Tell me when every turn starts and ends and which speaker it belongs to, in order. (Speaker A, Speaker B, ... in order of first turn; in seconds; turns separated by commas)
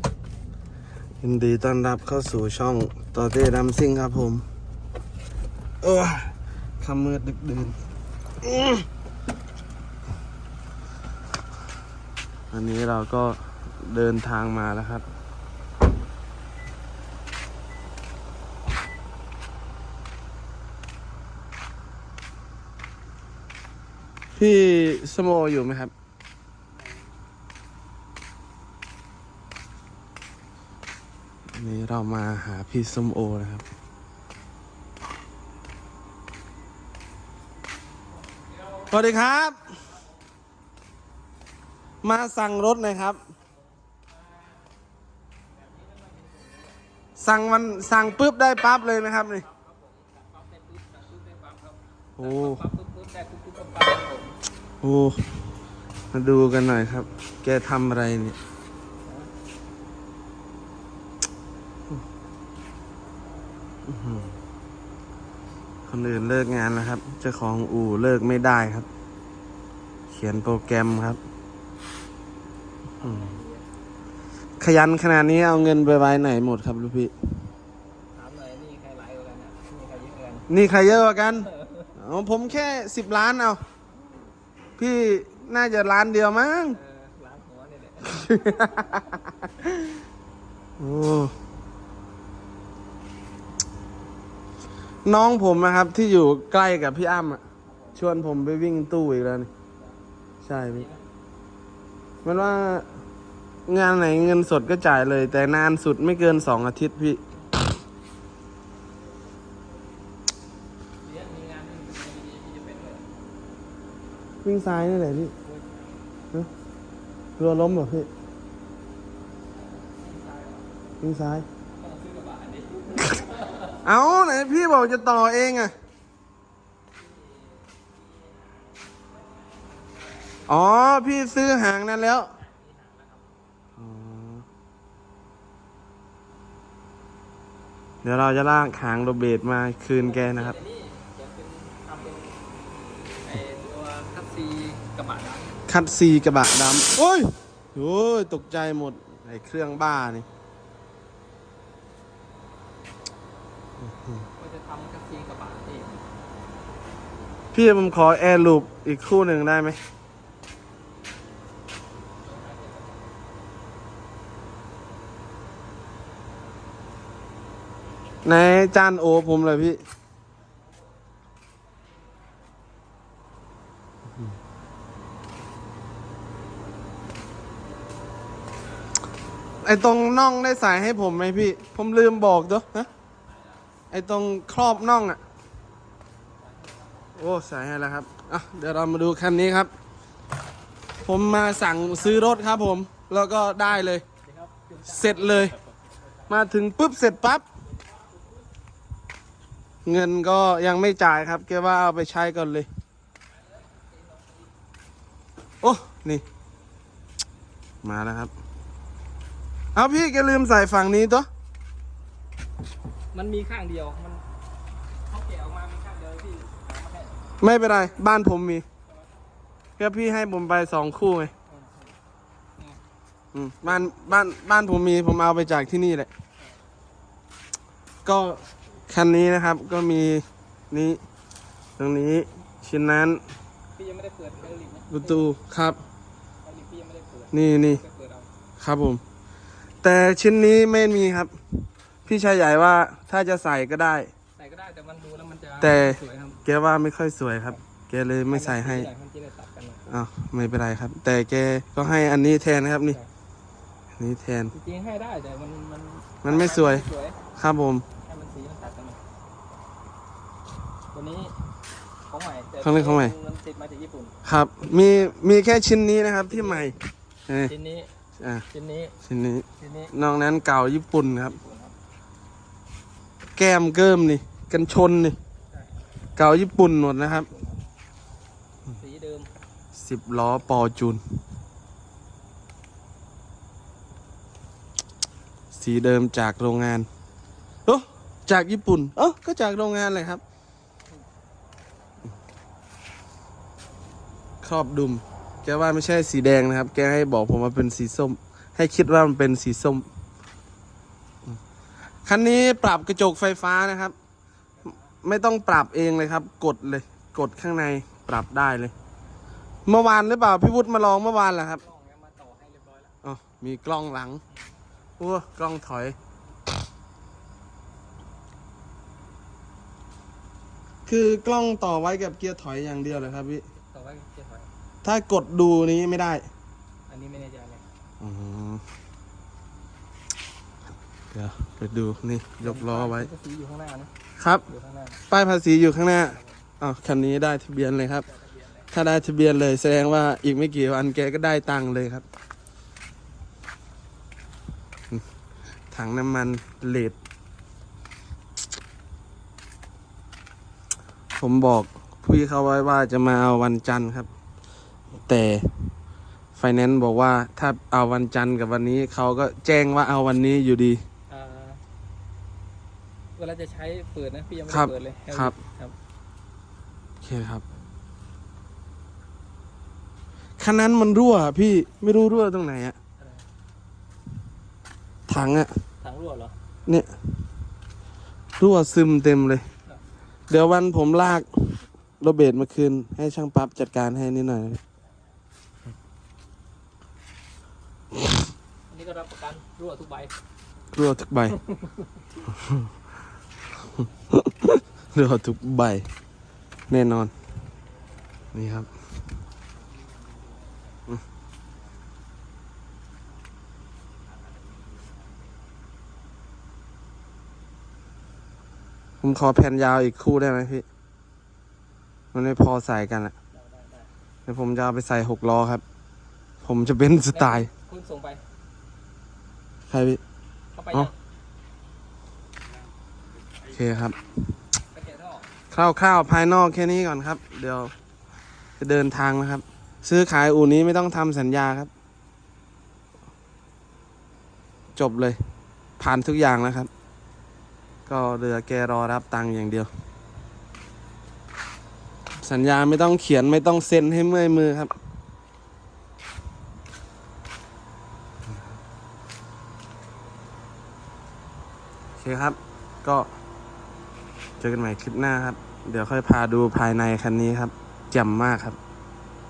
Speaker A: 1.2-4.4, Speaker A: 5.8-7.8, Speaker A: 8.4-8.8, Speaker A: 12.5-15.0, Speaker A: 24.4-25.9, Speaker A: 31.5-33.6, Speaker B: 38.6-38.9, Speaker A: 38.9-39.6, Speaker A: 42.0-43.2, Speaker B: 45.5-46.8, Speaker A: 47.2-49.5, Speaker B: 49.4-54.4, Speaker A: 52.2-52.6, Speaker A: 54.8-55.4, Speaker A: 56.1-58.4, Speaker B: 59.0-59.3, Speaker A: 63.9-64.3, Speaker A: 65.9-68.9, Speaker A: 70.1-71.2, Speaker B: 73.0-73.6, Speaker A: 73.0-73.4, Speaker A: 74.6-77.1, Speaker B: 78.1-80.5, Speaker A: 80.5-83.6, Speaker B: 81.5-81.9, Speaker A: 84.8-86.8, Speaker B: 86.7-88.7, Speaker A: 88.0-89.8, Speaker A: 90.8-91.3, Speaker A: 95.0-97.4, Speaker B: 97.7-98.0, Speaker A: 97.9-99.5, Speaker A: 100.4-100.9, Speaker A: 102.2-102.9, Speaker A: 103.7-107.2, Speaker B: 111.0-113.1, Speaker A: 114.4-115.3, Speaker B: 115.4-116.0, Speaker A: 117.4-118.1, Speaker B: 119.9-120.8, Speaker A: 121.0-121.5, Speaker B: 121.8-123.8, Speaker A: 123.8-125.7, Speaker B: 127.0-130.4, Speaker A: 130.5-132.3, Speaker B: 132.3-133.3, Speaker A: 133.8-134.4, Speaker A: 138.0-140.6, Speaker B: 140.0-142.3, Speaker B: 143.2-145.6, Speaker A: 145.7-150.2, Speaker A: 153.8-154.2, Speaker B: 154.4-156.0, Speaker A: 157.5-159.8, Speaker B: 162.2-163.1, Speaker A: 168.2-169.8, Speaker A: 179.6-182.9, Speaker A: 183.9-185.2, Speaker B: 186.4-187.0, Speaker A: 187.2-189.7, Speaker A: 191.0-194.0, Speaker B: 191.7-192.4, Speaker B: 194.2-195.6, Speaker A: 194.8-195.5, Speaker A: 196.3-197.4, Speaker A: 199.8-202.7, Speaker B: 203.4-204.5, Speaker A: 205.6-206.2, Speaker A: 207.8-208.3, Speaker A: 209.7-211.3, Speaker B: 213.1-214.2, Speaker B: 215.1-217.2, Speaker A: 217.4-218.6, Speaker A: 219.8-221.3, Speaker B: 221.5-221.9, Speaker A: 223.3-226.1, Speaker A: 228.0-231.0, Speaker A: 231.8-233.2, Speaker B: 233.8-235.3, Speaker A: 234.9-235.8, Speaker B: 236.4-238.3, Speaker A: 237.3-237.8, Speaker A: 238.6-239.0, Speaker A: 239.8-241.3, Speaker A: 242.1-244.1, Speaker B: 244.3-246.4, Speaker A: 245.6-248.9, Speaker B: 248.3-249.8, Speaker A: 249.9-253.0, Speaker A: 254.0-254.5, Speaker B: 254.5-257.2, Speaker A: 256.2-256.8, Speaker A: 257.4-257.9, Speaker B: 258.0-259.0, Speaker B: 260.9-261.4, Speaker B: 262.1-264.2, Speaker A: 262.6-263.1, Speaker A: 264.2-267.5, Speaker B: 264.9-265.1, Speaker B: 266.3-266.7, Speaker B: 267.4-267.9, Speaker A: 268.2-268.4, Speaker B: 268.5-268.9, Speaker A: 269.0-271.4, Speaker B: 269.6-269.9, Speaker B: 271.3-271.7, Speaker A: 273.4-275.2, Speaker B: 275.5-275.8, Speaker A: 276.1-277.3, Speaker B: 277.3-277.6, Speaker B: 278.7-279.3, Speaker A: 279.7-281.0, Speaker A: 285.5-286.9, Speaker A: 287.6-290.2, Speaker A: 294.4-299.9, Speaker A: 302.1-303.9, Speaker B: 304.6-304.9, Speaker A: 305.0-308.7, Speaker A: 309.6-311.6, Speaker B: 311.6-312.9, Speaker A: 313.0-314.2, Speaker A: 315.0-315.9, Speaker A: 320.9-323.4, Speaker B: 323.6-324.5, Speaker A: 324.8-326.2, Speaker B: 326.9-327.6, Speaker A: 328.0-328.6, Speaker A: 331.1-333.1, Speaker B: 332.4-333.9, Speaker A: 334.2-334.4, Speaker B: 334.5-335.0, Speaker A: 335.1-338.1, Speaker B: 336.1-336.4, Speaker B: 338.1-338.7, Speaker A: 338.7-342.0, Speaker A: 345.7-346.9, Speaker A: 351.2-354.1, Speaker A: 355.1-355.7, Speaker A: 356.4-360.8, Speaker B: 361.1-361.6, Speaker B: 363.2-365.8, Speaker A: 364.5-365.3, Speaker A: 367.0-367.4, Speaker A: 370.4-372.8, Speaker A: 375.1-375.6, Speaker B: 375.8-376.3, Speaker A: 378.4-379.4, Speaker A: 380.3-384.6, Speaker B: 388.7-390.1, Speaker A: 390.7-391.4, Speaker B: 391.4-391.8, Speaker A: 392.3-392.6, Speaker A: 394.1-395.9, Speaker A: 396.7-397.1, Speaker A: 398.3-398.7, Speaker A: 409.0-410.6, Speaker A: 412.1-413.1, Speaker B: 413.3-413.9, Speaker A: 414.3-415.6, Speaker A: 416.4-417.5, Speaker B: 417.1-418.2, Speaker A: 419.7-420.0, Speaker B: 420.5-420.9, Speaker A: 423.4-423.9, Speaker B: 424.7-425.3, Speaker A: 425.5-427.7, Speaker A: 428.6-431.7, Speaker A: 434.7-435.2, Speaker A: 435.8-436.7, Speaker A: 437.9-439.7, Speaker A: 442.2-444.7, Speaker A: 452.0-453.1, Speaker A: 454.4-458.6